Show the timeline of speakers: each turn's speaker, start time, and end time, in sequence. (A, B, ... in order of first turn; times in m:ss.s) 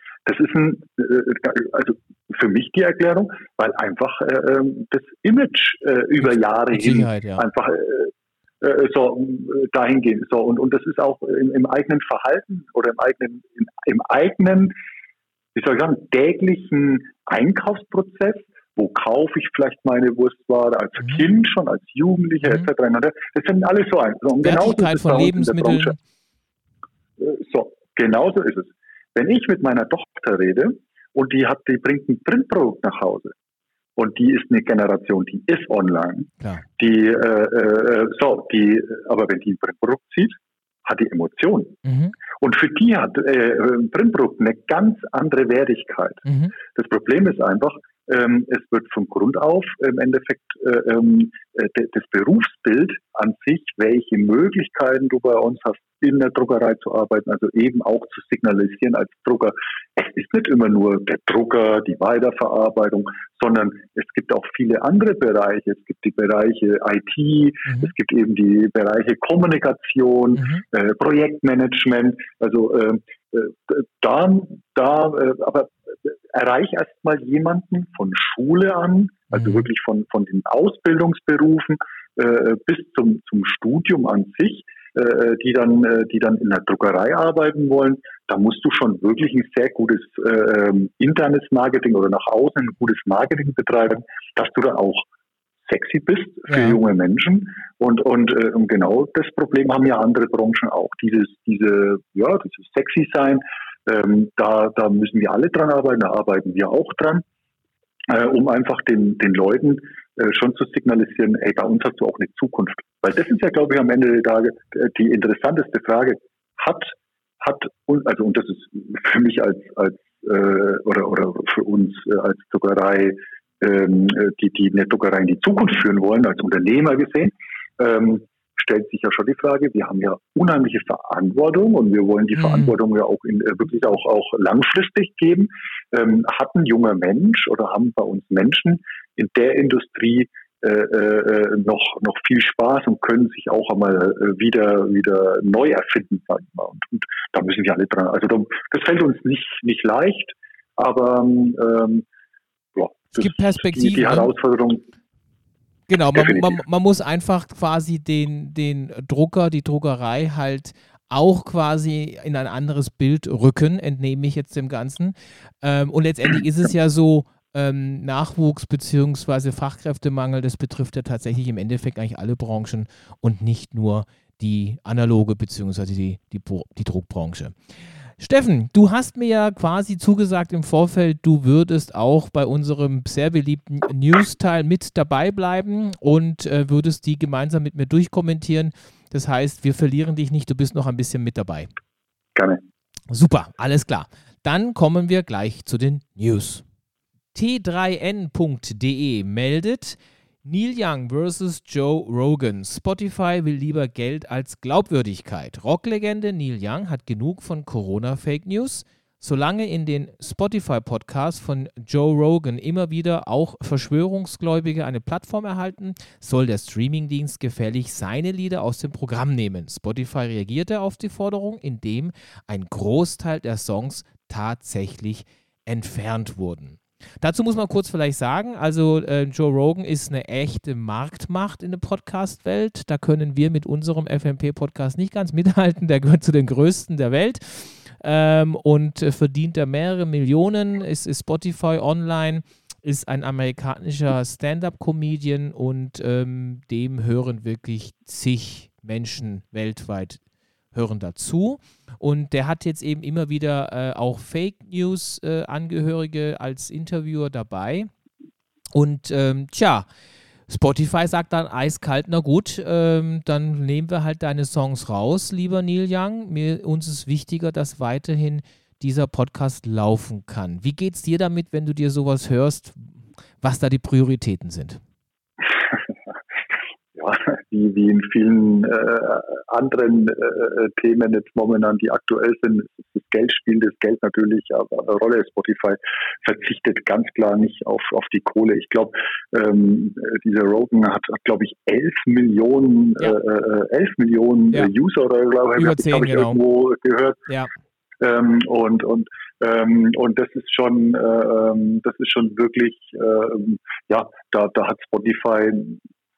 0:00.2-0:14.7 A
0:06.2-0:07.4 B
0:15.5-0:26.0 A
0:24.4-0:26.0 B
0:27.2-0:33.3 A
0:34.0-0:41.8 A
0:41.8-0:42.1 B
0:42.4-1:35.0 A
0:46.2-0:46.5 B
1:10.4-1:10.6 B
1:19.3-1:19.7 B
1:35.7-1:47.2 A
1:36.5-1:36.8 B
1:48.1-2:32.0 A
2:12.4-2:12.7 B
2:32.8-2:34.8 A
2:33.1-2:34.3 B
2:35.9-2:57.6 B
2:36.1-2:36.5 A
2:58.2-3:11.7 B
3:12.4-3:12.6 A
3:13.1-3:16.6 B
3:17.3-4:10.2 B
4:10.7-4:17.9 B
4:18.7-4:19.8 B
4:20.5-4:34.8 B
4:36.9-4:57.2 A
4:55.6-4:56.4 B
4:58.0-5:05.8 A